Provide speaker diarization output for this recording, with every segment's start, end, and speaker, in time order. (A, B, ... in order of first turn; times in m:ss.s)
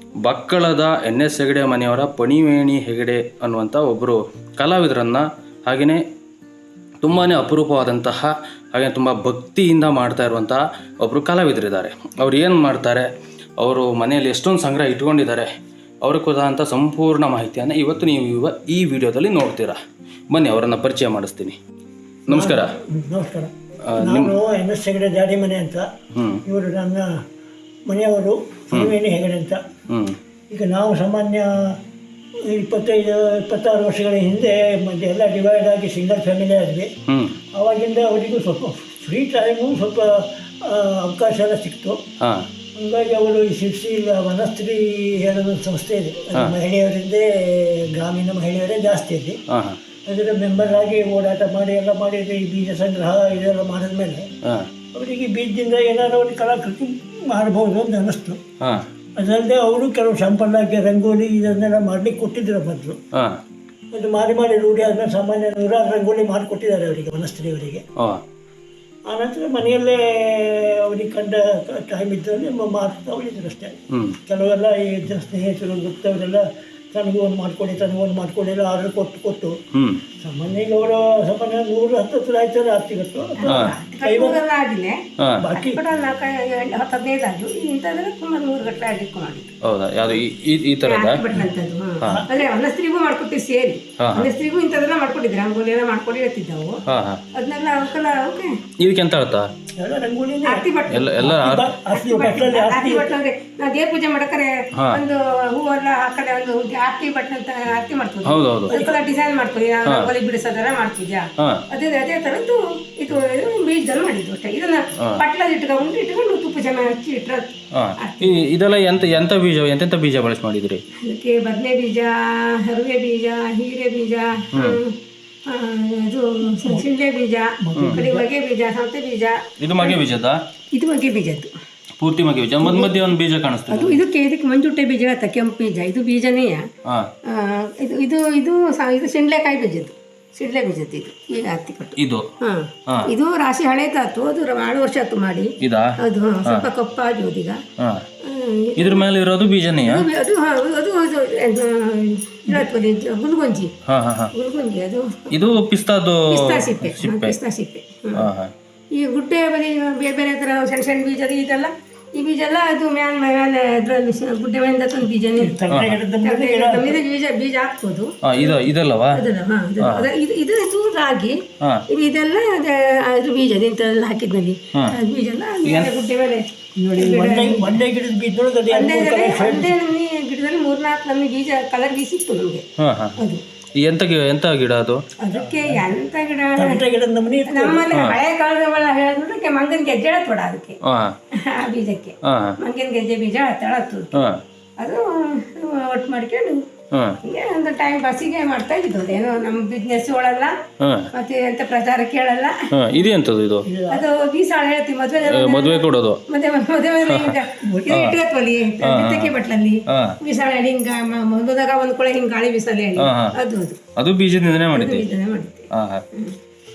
0:00.2-0:06.0 A
0:07.0-0:15.5 A
0:16.0-0:19.8 A
0:20.3-0:21.6 A
0:22.3-0:22.7 A
0:22.3-0:25.9 B
0:23.9-0:24.4 A
0:26.1-0:26.4 A
0:26.4-0:27.2 B
0:27.9-0:29.6 B
0:29.9-0:30.2 A
0:30.5-0:31.8 B
0:32.4-0:36.9 B
0:37.1-0:37.4 A
0:37.5-0:42.0 B
0:42.2-0:42.4 A
0:42.8-0:49.4 B
0:49.5-0:49.8 A
0:50.0-0:54.3 B
0:54.4-0:54.7 A
0:54.9-0:58.4 B
0:59.2-1:03.0 B
1:03.1-1:03.4 A
1:03.9-1:07.8 B
1:09.1-1:19.6 B
1:13.9-1:14.2 A
1:19.7-1:20.0 A
1:20.2-1:24.4 B
1:23.4-1:29.5 C
1:23.4-1:23.7 A
1:25.2-1:25.4 A
1:25.4-1:25.8 B
1:29.6-1:31.2 A
1:30.8-1:36.8 C
1:32.0-1:32.3 B
1:34.0-1:34.3 A
1:36.9-1:37.2 A
1:37.3-1:38.5 C
1:38.8-1:39.5 A
1:39.8-1:43.2 B
1:40.4-1:58.3 C
1:40.9-1:41.7 A
1:48.2-1:48.7 A
1:48.7-1:49.0 B
1:51.4-1:51.6 A
1:57.7-2:00.8 A
2:01.0-2:10.0 C
2:04.5-2:04.8 A
2:07.6-2:08.3 B
2:07.8-2:08.0 A
2:09.6-2:10.4 A
2:10.7-2:11.5 C
2:12.0-2:14.0 A
2:12.6-2:12.9 C
2:13.7-2:16.6 C
2:17.2-2:27.6 C
2:22.0-2:22.3 A
2:25.6-2:26.7 A
2:27.8-2:28.0 A
2:28.2-2:29.1 C
2:28.8-2:30.1 A
2:29.8-2:33.7 C
2:33.9-2:34.3 A
2:34.3-2:35.3 C
2:35.3-2:37.4 A
2:36.3-2:38.3 C
2:38.1-2:38.5 A
2:38.9-2:45.6 C
2:45.4-2:47.0 B
2:45.7-2:46.0 A
2:46.2-2:48.6 C
2:48.2-2:49.2 A
2:49.1-2:56.4 C
2:49.8-2:50.0 A
2:55.6-2:55.9 A
2:56.8-2:59.8 B
2:57.0-2:57.8 C
2:58.7-3:02.6 C
3:02.8-3:03.2 A
3:03.8-3:05.0 A
3:05.2-3:06.8 C
3:05.4-3:05.9 B
3:06.6-3:07.9 B
3:07.5-3:10.8 C
3:07.9-3:08.2 A
3:10.8-3:11.1 A
3:11.4-3:14.2 C
3:12.2-3:12.6 A
3:14.1-3:14.4 A
3:14.8-3:16.6 C
3:16.9-3:17.2 A
3:17.2-3:20.6 C
3:20.8-3:21.1 A
3:21.1-3:22.6 C
3:22.7-3:23.7 A
3:23.6-3:24.1 B
3:23.9-3:33.8 C
3:25.2-3:26.2 A
3:27.0-3:28.2 A
3:28.8-3:29.3 A
3:29.9-3:30.2 A
3:33.0-3:33.3 A
3:34.0-3:35.0 A
3:34.7-3:36.3 C
3:35.7-3:36.0 A